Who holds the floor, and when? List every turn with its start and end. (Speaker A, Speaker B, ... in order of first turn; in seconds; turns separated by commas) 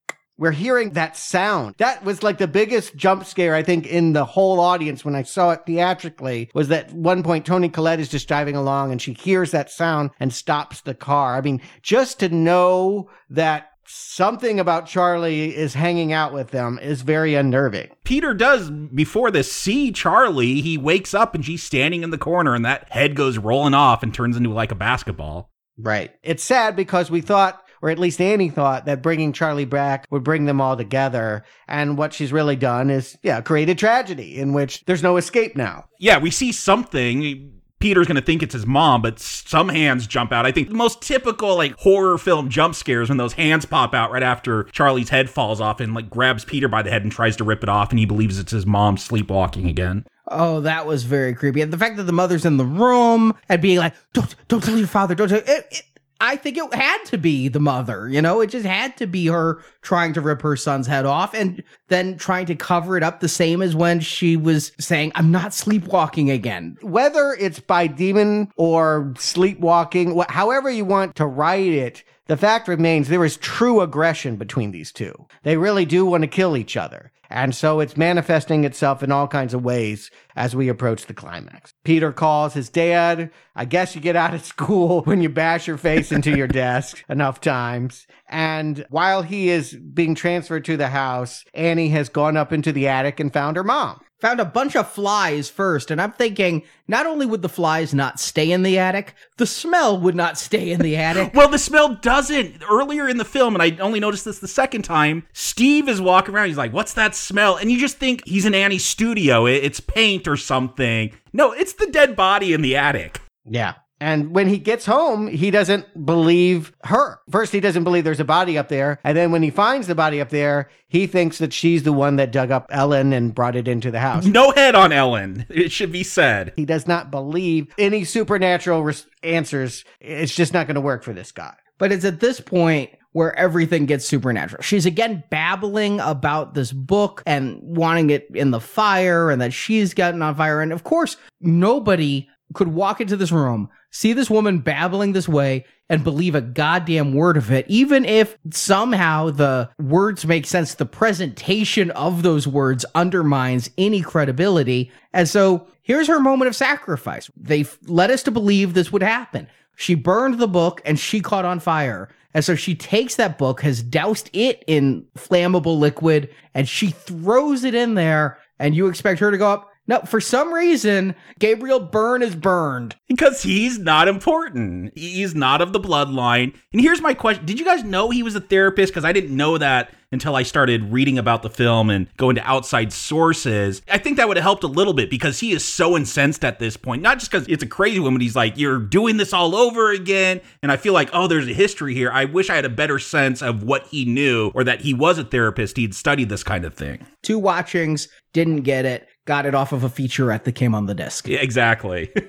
Speaker A: 0.4-17.9, Speaker B: 18.1-25.5, Speaker C: 25.8-26.1, Speaker A: 26.2-35.9, Speaker B: 36.0-50.0, Speaker C: 50.3-66.8, Speaker A: 66.8-94.0, Speaker C: 94.2-101.3, Speaker B: 101.2-113.2, Speaker A: 113.5-124.3, Speaker B: 124.2-126.5, Speaker A: 126.6-131.6, Speaker C: 131.8-173.0, Speaker B: 173.1-197.0, Speaker C: 197.2-201.3, Speaker B: 201.3-202.1